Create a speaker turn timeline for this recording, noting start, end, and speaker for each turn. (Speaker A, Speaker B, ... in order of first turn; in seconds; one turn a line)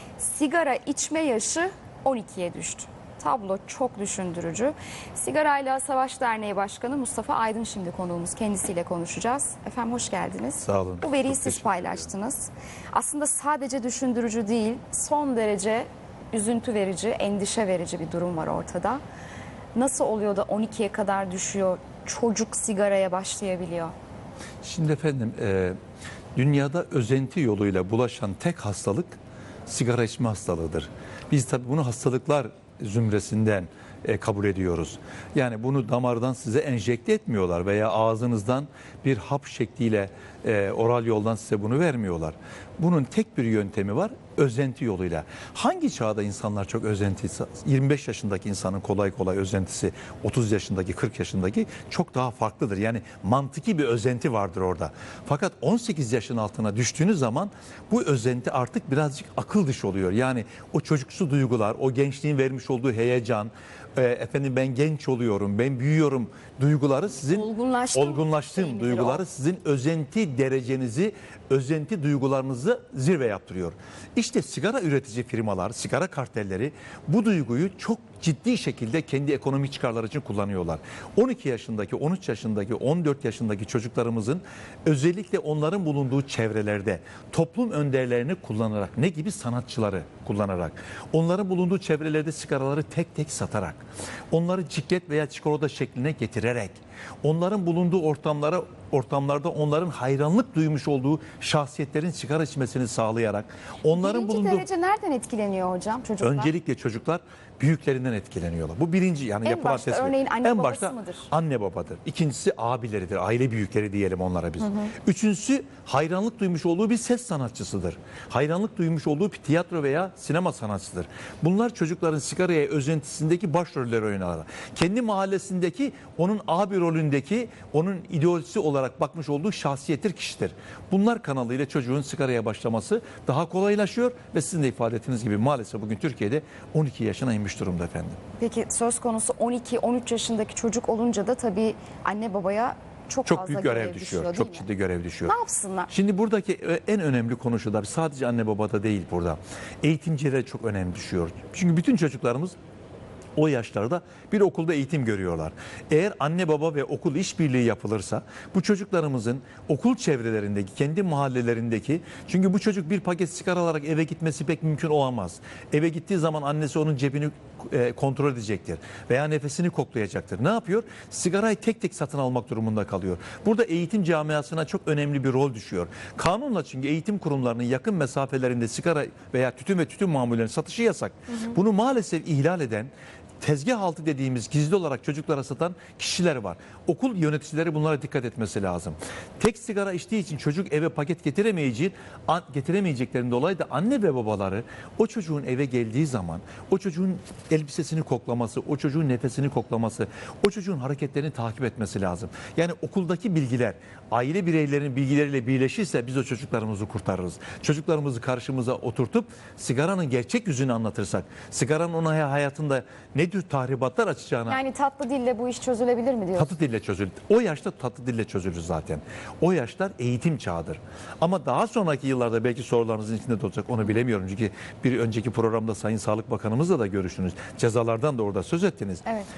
Speaker A: 0.2-19.0
Speaker B: 10.6-12.1
Speaker A: 19.7-23.9
Speaker B: 24.6-25.8
Speaker B: 26.3-104.6
Speaker A: 67.2-69.2
Speaker A: 103.9-106.5
Speaker B: 106.2-138.2
Speaker A: 109.4-111.3
Speaker A: 114.6-114.9
Speaker A: 138.4-144.7
Speaker B: 143.2-145.3
Speaker A: 145.2-145.9
Speaker B: 145.9-152.5
Speaker B: 153.3-182.9
Speaker B: 183.4-214.6
Speaker A: 214.5-216.5
Speaker B: 216.3-229.0